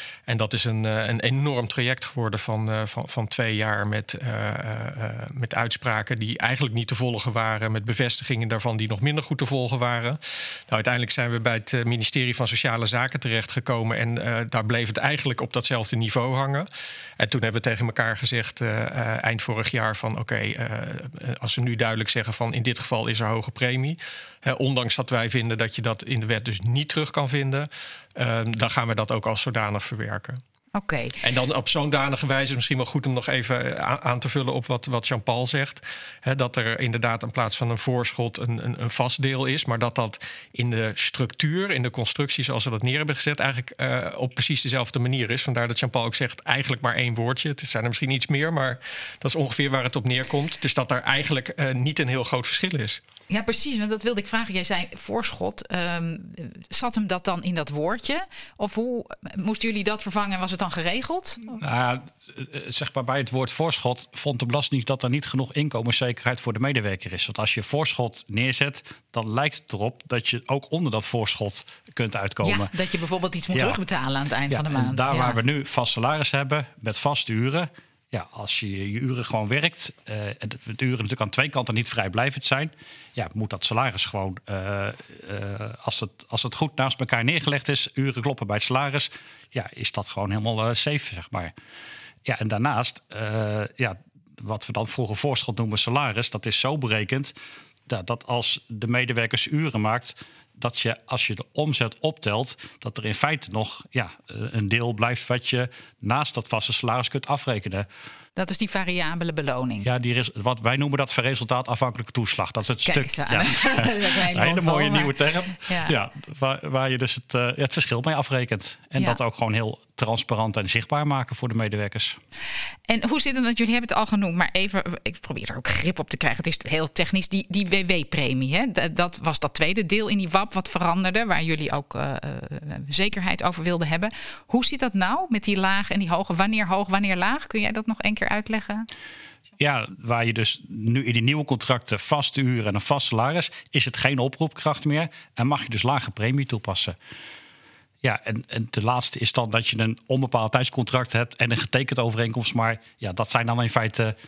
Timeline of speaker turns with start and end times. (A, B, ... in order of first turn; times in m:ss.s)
0:00.3-0:16.7 A
0:17.2-0:30.4 A
0:30.7-0:31.2 B
0:31.2-0:53.0 A
0:53.3-1:01.6 B
1:01.6-1:12.7 C
1:12.4-1:15.4 B
1:13.5-1:13.8 C
1:14.5-1:31.5 C
1:32.2-1:37.4 C
1:37.9-1:47.9 C
1:48.4-1:49.9 B
1:49.8-2:02.2 C
1:52.8-1:56.0 B
2:02.9-2:18.9 B
2:19.6-2:27.0 C
2:28.0-2:34.2 C